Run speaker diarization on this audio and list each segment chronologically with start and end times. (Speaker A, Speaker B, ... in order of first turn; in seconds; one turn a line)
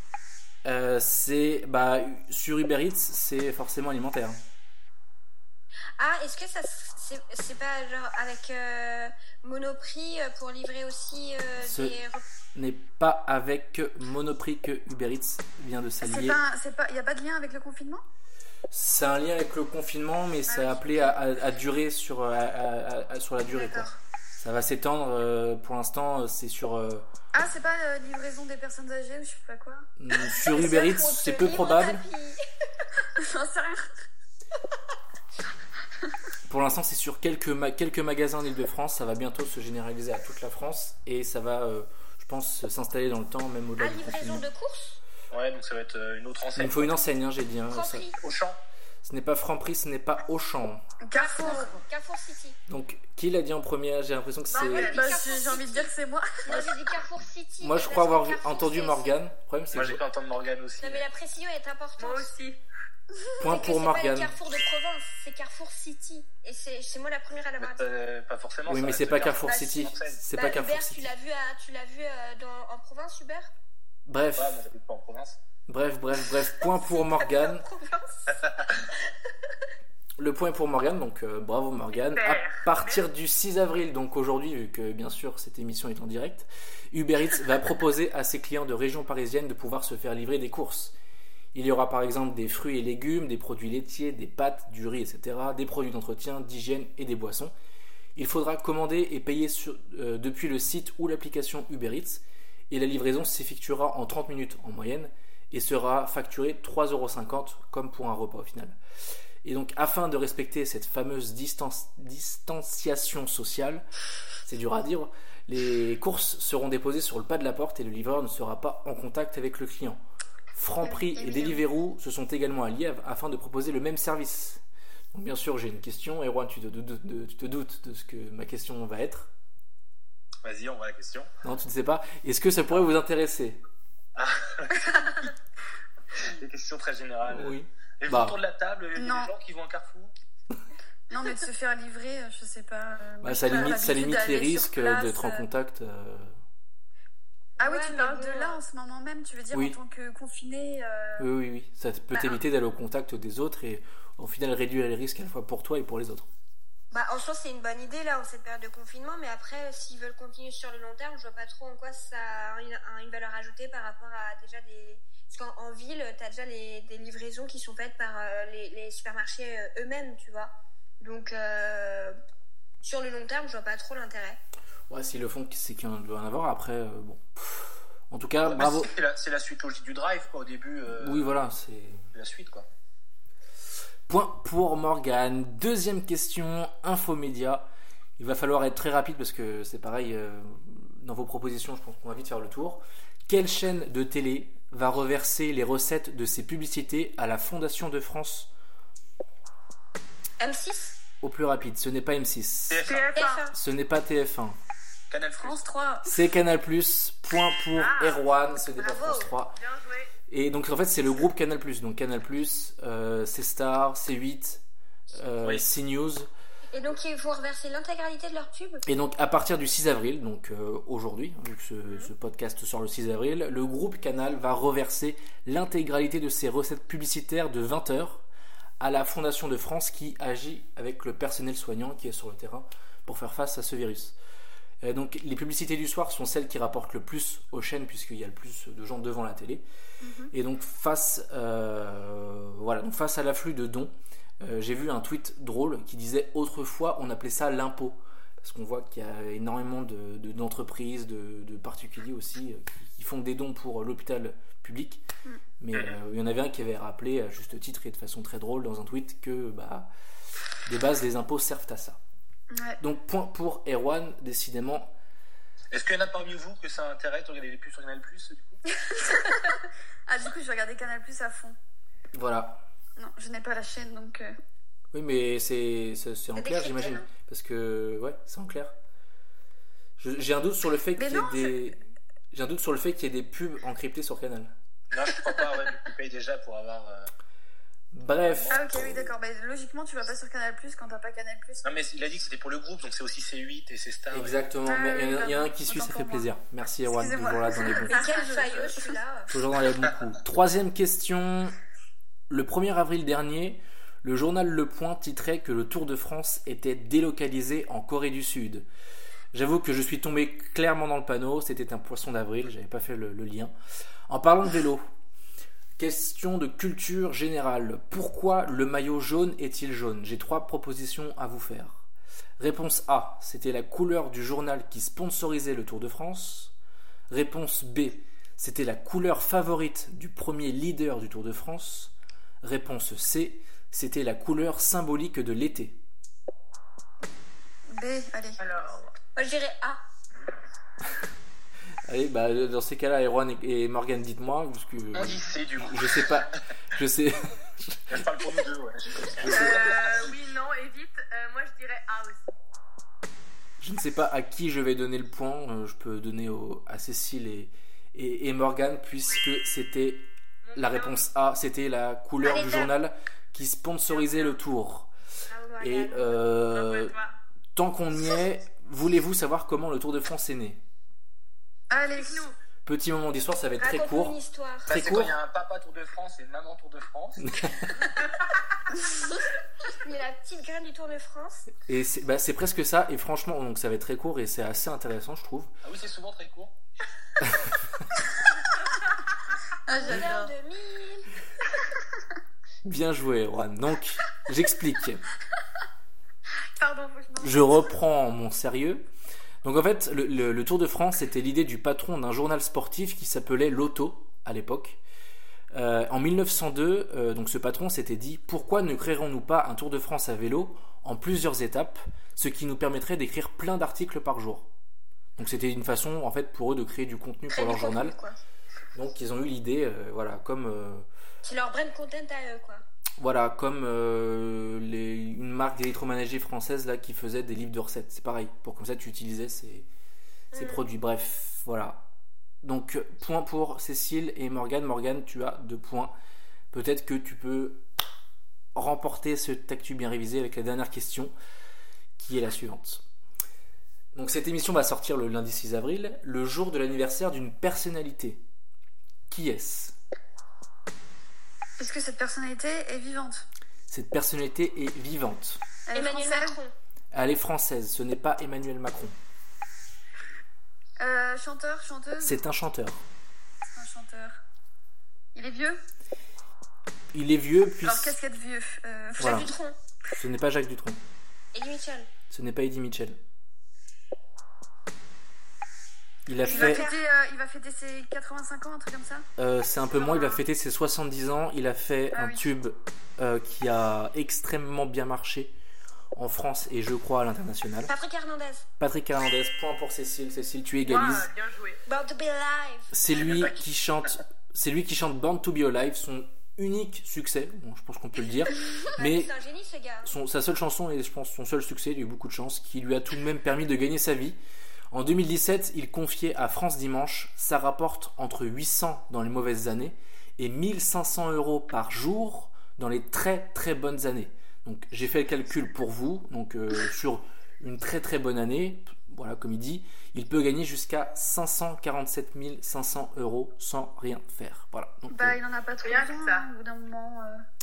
Speaker A: 0.7-4.4
Speaker B: 6.0-12.2
Speaker A: 11.7-11.9
Speaker A: 12.6-16.4
Speaker C: 16.0-18.0
Speaker A: 18.7-27.1
Speaker C: 20.5-21.2
Speaker B: 23.5-24.0
Speaker C: 27.3-29.9
Speaker A: 30.0-32.1
Speaker B: 30.4-32.4
Speaker C: 33.2-33.9
Speaker A: 36.5-44.5
Speaker B: 43.8-45.0
Speaker D: 45.3-47.0
Speaker A: 46.6-48.1
Speaker B: 47.7-48.2
Speaker D: 48.2-48.6
Speaker A: 49.0-50.9
Speaker C: 51.0-51.8
Speaker B: 51.1-52.6
Speaker A: 52.7-54.9
Speaker E: 54.5-55.2
Speaker B: 54.6-55.9
Speaker C: 54.8-56.7
Speaker B: 56.5-59.2
Speaker A: 57.6-60.0
Speaker D: 59.7-61.1
Speaker B: 60.8-62.3
Speaker E: 62.0-62.6
Speaker A: 63.4-64.3
Speaker B: 63.4-67.9
Speaker D: 67.6-70.2
Speaker A: 68.7-71.1
Speaker B: 69.4-73.5
Speaker A: 74.1-74.6
Speaker D: 74.4-75.4
Speaker A: 75.7-77.7
Speaker B: 76.7-79.0
Speaker A: 80.2-91.0
Speaker E: 82.1-83.0
Speaker A: 91.5-97.5
Speaker A: 98.2-108.8
Speaker A: 109.4-113.8
Speaker A: 114.5-120.0
Speaker A: 120.5-129.3
Speaker C: 120.8-121.6
Speaker D: 130.4-131.3
Speaker A: 131.4-133.6
Speaker D: 134.2-135.2
Speaker D: 136.1-140.1
Speaker A: 137.3-138.4
Speaker C: 138.9-139.3
Speaker C: 141.1-145.5
Speaker A: 143.2-146.3
Speaker B: 143.5-143.8
Speaker C: 147.6-151.3
Speaker B: 147.6-148.6
Speaker A: 149.5-149.8
Speaker A: 151.2-156.3
Speaker B: 152.1-152.4
Speaker B: 156.9-172.2
Speaker B: 172.8-174.4
Speaker A: 174.9-178.9
Speaker D: 178.4-181.3
Speaker A: 181.0-182.1
Speaker D: 182.1-182.7
Speaker A: 184.1-198.5
Speaker B: 200.4-201.0
Speaker A: 201.2-202.9
Speaker D: 202.7-203.1
Speaker E: 202.9-203.5
Speaker B: 203.1-203.6
Speaker A: 203.5-204.6
Speaker D: 205.1-205.6
Speaker C: 205.4-206.2
Speaker A: 206.1-209.6
Speaker E: 207.7-208.2
Speaker B: 208.8-209.3
Speaker E: 209.6-210.1
Speaker A: 210.3-214.6
Speaker A: 215.1-216.3
Speaker B: 216.7-218.8
Speaker A: 218.9-228.2
Speaker A: 228.8-234.2
Speaker A: 234.8-239.6
Speaker C: 240.0-240.3
Speaker A: 240.3-255.0
Speaker A: 255.6-259.9
Speaker A: 260.7-262.0
Speaker C: 262.5-262.8
Speaker A: 262.8-264.9
Speaker D: 265.7-268.6
Speaker C: 270.1-271.6
Speaker A: 272.1-272.6
Speaker C: 273.0-274.4
Speaker A: 274.9-278.8
Speaker B: 276.4-277.1
Speaker A: 280.0-281.8
Speaker C: 281.0-281.6
Speaker A: 282.3-284.5
Speaker D: 284.9-287.1
Speaker A: 287.9-289.0
Speaker D: 288.2-288.5
Speaker C: 288.5-291.6
Speaker D: 291.6-294.4
Speaker A: 294.1-297.9
Speaker C: 294.6-296.3
Speaker C: 296.9-298.9
Speaker B: 297.7-299.3
Speaker E: 297.9-298.2
Speaker A: 299.3-301.6
Speaker A: 302.3-308.7
Speaker A: 309.3-313.5
Speaker A: 314.1-314.9
Speaker A: 315.8-321.9
Speaker A: 322.4-326.5
Speaker A: 327.1-335.8
Speaker C: 337.7-338.4
Speaker E: 338.4-338.9
Speaker B: 339.2-339.8
Speaker A: 341.9-348.2
Speaker D: 344.9-346.4
Speaker D: 347.9-349.8
Speaker A: 349.1-349.7
Speaker E: 349.3-352.3
Speaker A: 353.6-364.9
Speaker E: 360.4-361.1
Speaker B: 362.2-362.7
Speaker E: 363.9-364.4
Speaker B: 365.3-366.1
Speaker A: 365.6-366.9
Speaker E: 366.5-367.2
Speaker A: 367.6-370.6
Speaker C: 371.7-372.3
Speaker E: 371.9-372.4
Speaker A: 372.6-374.2
Speaker B: 373.6-374.8
Speaker A: 374.7-375.2
Speaker D: 374.7-377.4
Speaker A: 377.2-377.9
Speaker B: 379.7-381.5
Speaker A: 381.7-385.5
Speaker D: 385.6-386.6
Speaker A: 387.2-387.5
Speaker C: 389.7-390.3
Speaker B: 389.7-391.1
Speaker A: 392.6-395.0
Speaker C: 396.6-397.4
Speaker A: 397.2-398.9
Speaker A: 399.4-404.8
Speaker A: 405.5-414.5
Speaker A: 415.2-418.0
Speaker B: 417.3-418.2
Speaker A: 418.8-420.9
Speaker B: 421.2-422.6
Speaker A: 423.0-429.7
Speaker B: 430.3-430.6
Speaker A: 430.3-431.9
Speaker A: 432.4-435.9
Speaker A: 436.5-437.6
Speaker A: 438.6-441.1
Speaker A: 442.0-442.9
Speaker A: 443.9-448.2
Speaker A: 449.1-449.8
Speaker C: 451.6-453.3
Speaker A: 453.7-455.4
Speaker C: 455.7-456.4
Speaker B: 455.8-456.5
Speaker A: 456.9-459.0
Speaker C: 460.8-462.2
Speaker A: 462.0-462.9
Speaker C: 463.5-464.2
Speaker C: 465.1-465.6
Speaker A: 466.9-468.0
Speaker C: 467.6-469.4
Speaker B: 469.0-469.6
Speaker A: 469.0-469.3
Speaker A: 469.9-470.8
Speaker B: 471.3-471.9
Speaker A: 472.1-473.0
Speaker A: 476.1-476.7
Speaker B: 476.2-476.8
Speaker C: 476.3-479.1
Speaker A: 479.2-485.4
Speaker C: 479.7-480.2
Speaker C: 481.9-482.3
Speaker A: 485.9-487.7
Speaker B: 487.7-488.5
Speaker A: 488.6-491.1
Speaker E: 490.6-491.6
Speaker B: 491.7-492.8
Speaker A: 492.7-499.1
Speaker D: 492.9-493.4
Speaker B: 498.7-500.0
Speaker A: 499.9-504.2
Speaker A: 504.7-525.2
Speaker C: 524.9-527.2
Speaker E: 525.6-526.3